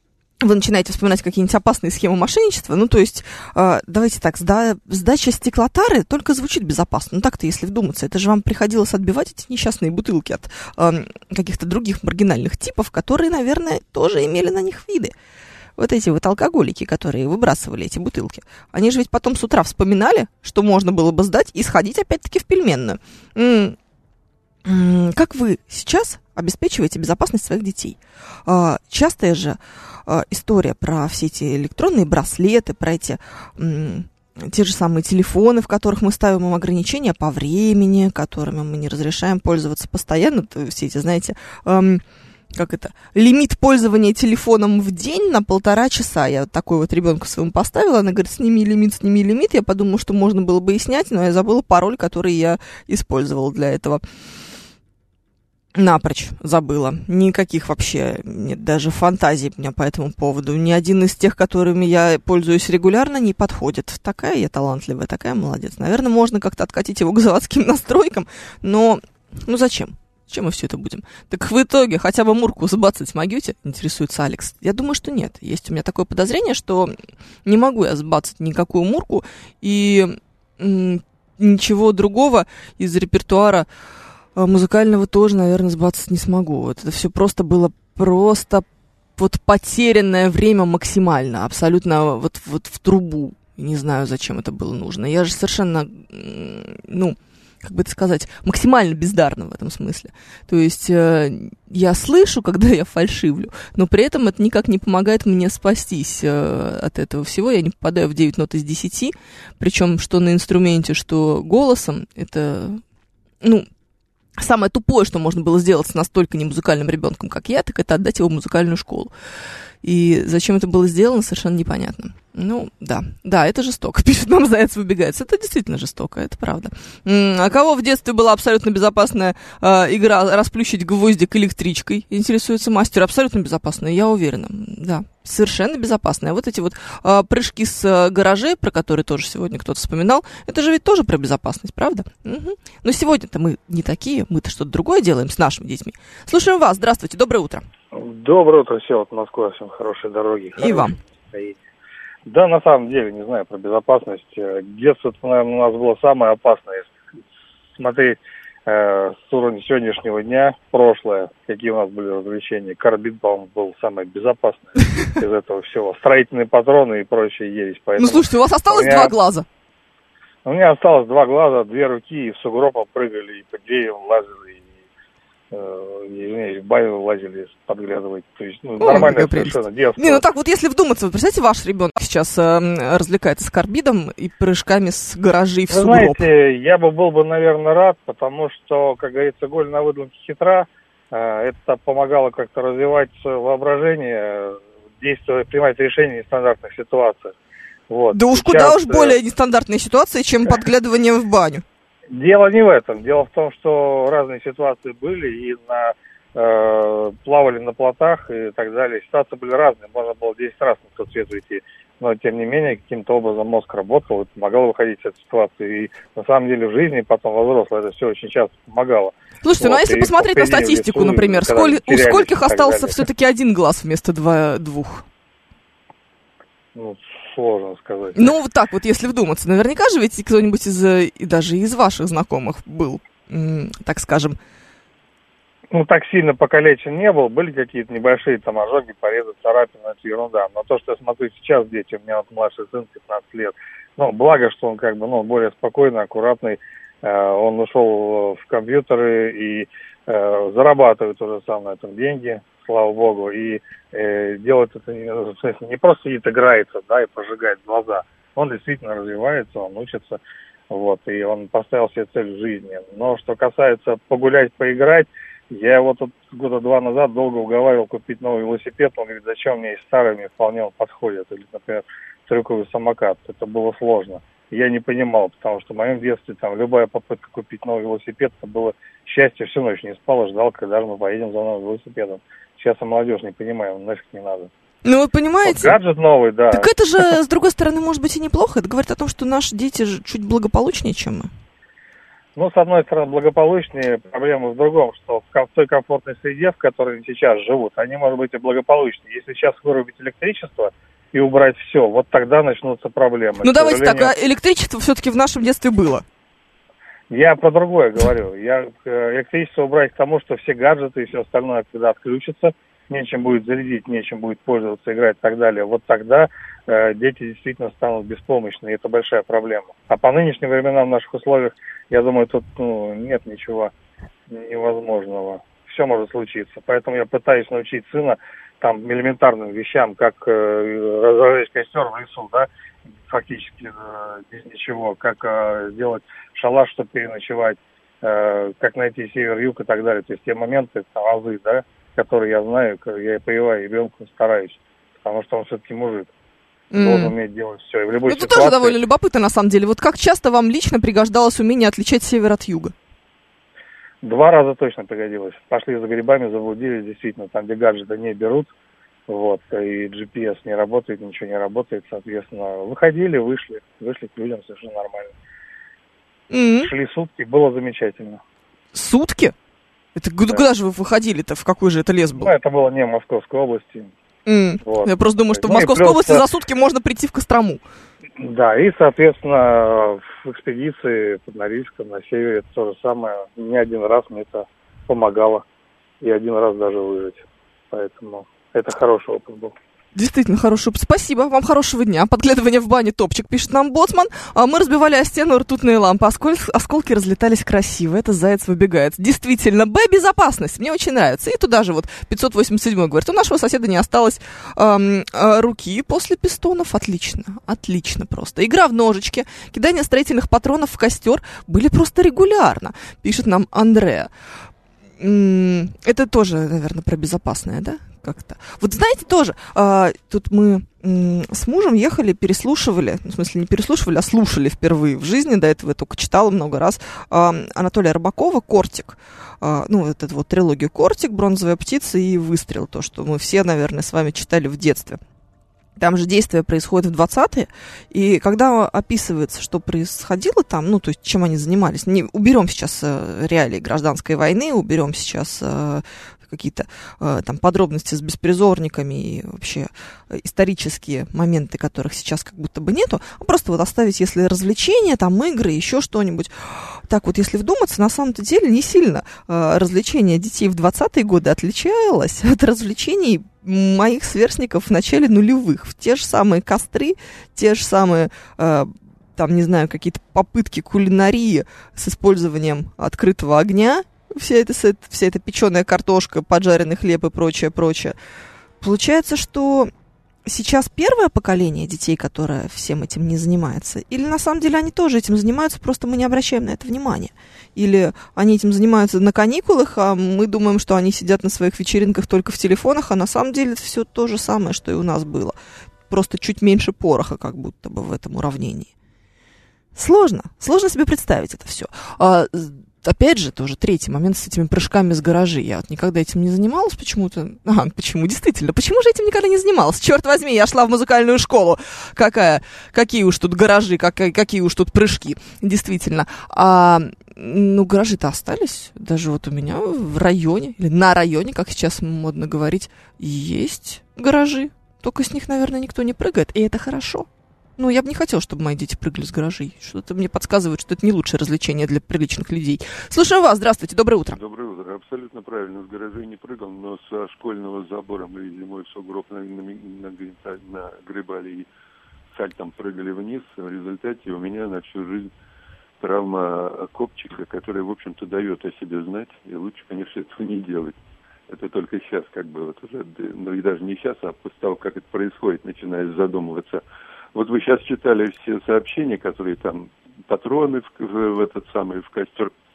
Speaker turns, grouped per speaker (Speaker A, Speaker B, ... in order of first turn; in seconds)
Speaker A: 0.4-15.1, 15.8-23.8, 24.6-42.0, 42.5-54.0, 55.8-83.7, 84.4-88.7, 89.2-112.8, 113.4-113.7, 114.4-119.1, 119.8-147.6, 150.6-151.0, 168.0-169.5, 178.8-186.3, 198.1-201.6, 219.4-225.1, 228.2-234.4, 284.8-285.8, 286.5-291.3, 303.4-306.0, 346.7-347.1, 348.1-352.7, 366.3-366.7, 368.7-369.4, 369.9-372.3, 374.3-377.6, 389.9-414.1, 415.0-435.0, 435.8-478.0, 478.6-479.7, 480.2-495.4, 495.9-498.7, 499.8-534.2
Speaker B: 147.9-151.6, 152.3-156.9, 157.8-169.2, 170.4-174.6, 175.5-180.2, 185.7-197.4, 197.9-199.2, 202.1-223.0, 226.8-228.3, 235.7-284.5, 285.4-287.1, 292.4-304.1, 307.1-323.7, 324.3-346.1, 346.8-348.8, 354.0-358.5, 359.1-365.1, 366.6-368.2, 372.2-373.9, 374.6-376.2, 378.2-385.4, 386.0-389.6
Speaker C: 534.1-541.5, 542.1-545.1, 545.8-550.8, 551.3-556.6, 557.1-562.3